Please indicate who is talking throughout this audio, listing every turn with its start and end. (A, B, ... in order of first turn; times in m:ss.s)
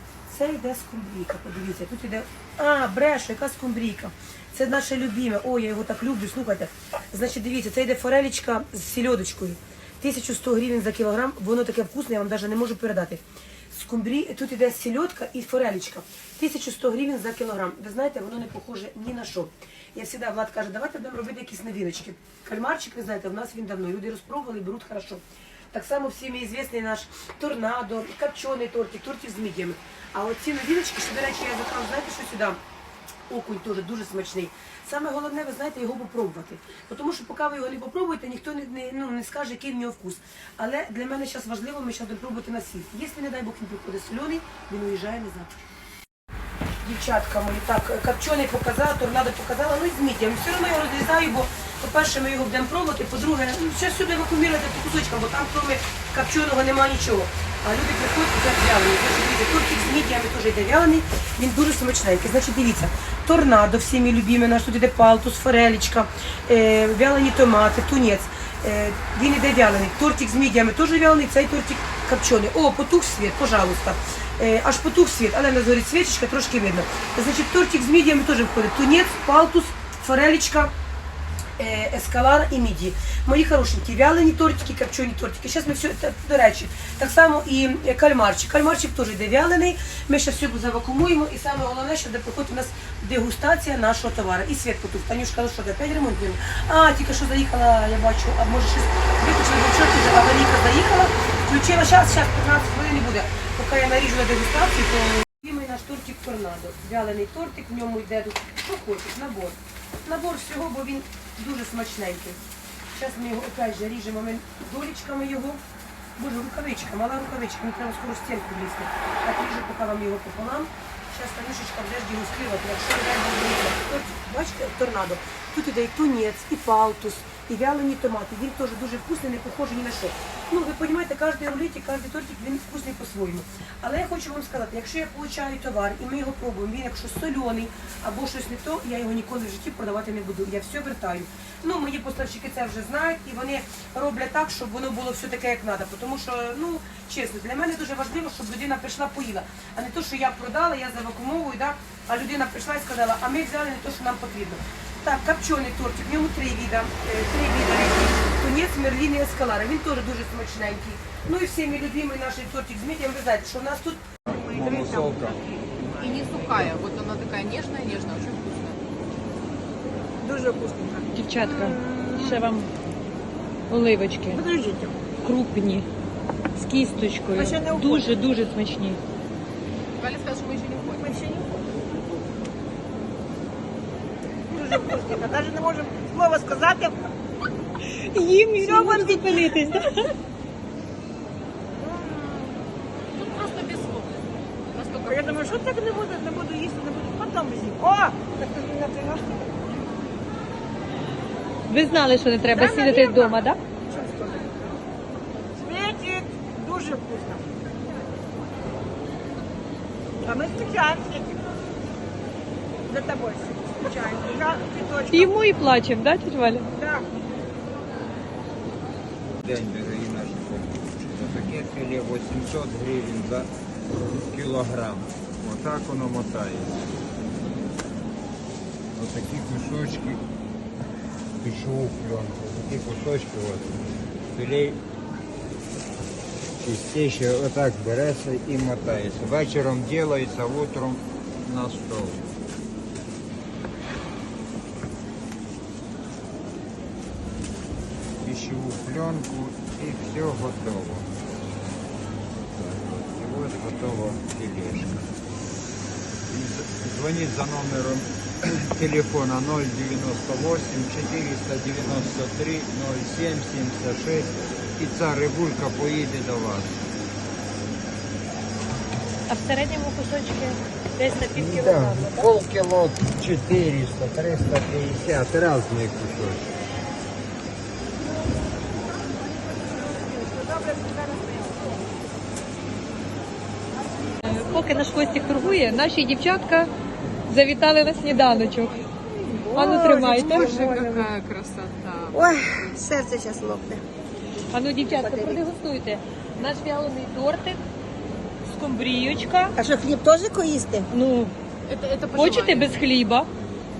0:00.3-0:32.6 A
0:33.3-0:45.5 A
0:46.8-1:20.7 A
1:21.6-1:52.4 A
1:52.9-1:55.6 A
1:56.2-2:44.0 A
2:44.2-2:45.4 B
2:44.3-2:45.1 C
2:45.8-2:48.8 D
2:50.2-2:52.5 C
2:51.1-2:52.7 E
2:53.7-2:54.4 E
2:54.3-2:55.0 C
2:55.2-2:55.9 E
2:56.6-2:59.0 E
2:57.3-2:58.2 C
3:00.0-3:01.2 D
3:00.9-3:01.5 C
3:04.5-3:06.9 C
3:08.0-3:10.1 E
3:08.6-3:09.7 C
3:11.8-3:12.6 C
3:13.1-3:15.6 D
3:15.0-3:19.6 C
3:21.7-3:23.6 E
3:22.5-3:24.6 C
3:25.6-3:27.4 C
3:30.2-3:31.4 C
3:32.9-3:35.4 C
3:35.1-3:36.7 E
3:36.8-3:37.1 C
3:39.4-3:46.8 B
3:49.0-3:50.2 B
3:51.4-3:53.8 B
3:54.3-3:54.8 B
3:56.6-4:02.3 B
4:08.2-4:11.4 B
4:12.5-4:15.1 B
4:16.3-4:26.8 B
4:29.3-4:32.2 E
4:31.3-4:36.5 B
4:38.9-4:41.9 C
4:44.2-4:46.7 E
4:47.3-4:48.8 E
4:49.2-4:51.1 C
4:49.5-4:50.5 E
4:50.1-4:52.2 D
4:52.1-4:53.8 C
4:54.5-4:57.6 E
4:54.8-4:55.4 C
4:58.4-4:59.5 E
4:59.6-5:00.9 C
5:00.9-5:01.3 E
5:01.6-5:02.8 D
5:02.1-5:03.3 E